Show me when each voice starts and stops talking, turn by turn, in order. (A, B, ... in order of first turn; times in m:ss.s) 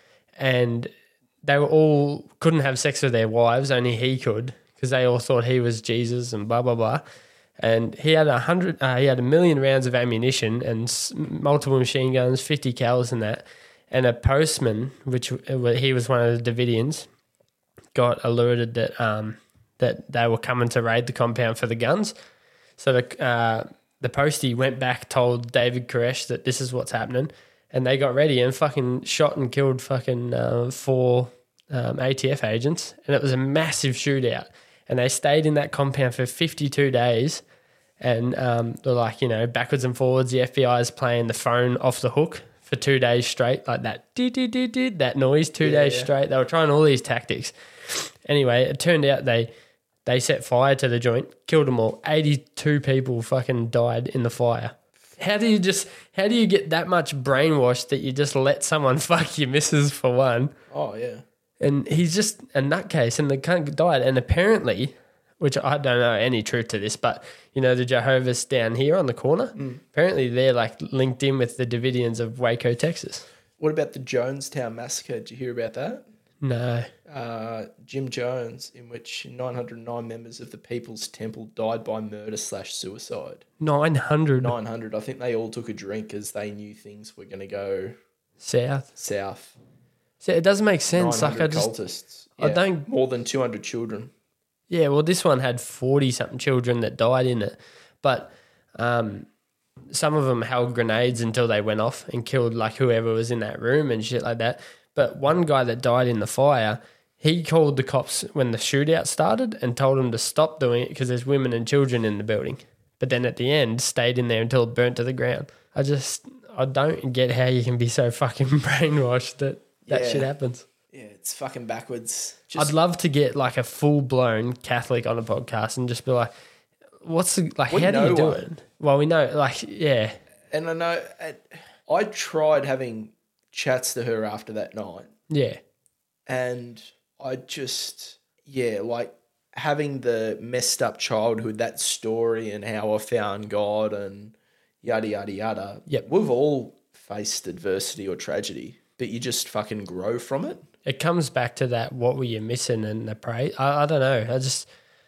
0:00.4-0:00.9 A
0:01.4-0:07.0 A
0:07.6-0:17.1 A
0:18.0-0:22.1 A
0:22.8-0:37.4 A
0:38.0-0:49.5 A
0:45.6-0:46.1 B
0:50.0-1:00.5 A
1:00.7-1:01.2 B
1:01.6-1:13.3 A
1:09.6-1:09.8 B
1:13.6-1:16.0 B
1:16.4-1:16.9 A
1:17.1-1:23.4 B
1:23.6-1:24.6 A
1:24.4-1:28.0 B
1:28.4-1:28.9 A
1:29.0-1:29.6 B
1:30.2-1:31.7 A
1:30.9-1:34.1 B
1:32.4-1:32.9 A
1:34.7-1:39.3 A
1:39.9-2:00.7 A
1:59.8-2:00.3 B
2:00.9-2:02.8 B
2:02.6-2:06.3 A
2:07.0-2:10.2 A
2:07.7-2:08.5 B
2:10.5-2:15.1 B
2:15.3-2:15.6 A
2:16.3-2:30.7 B
2:30.8-2:34.7 A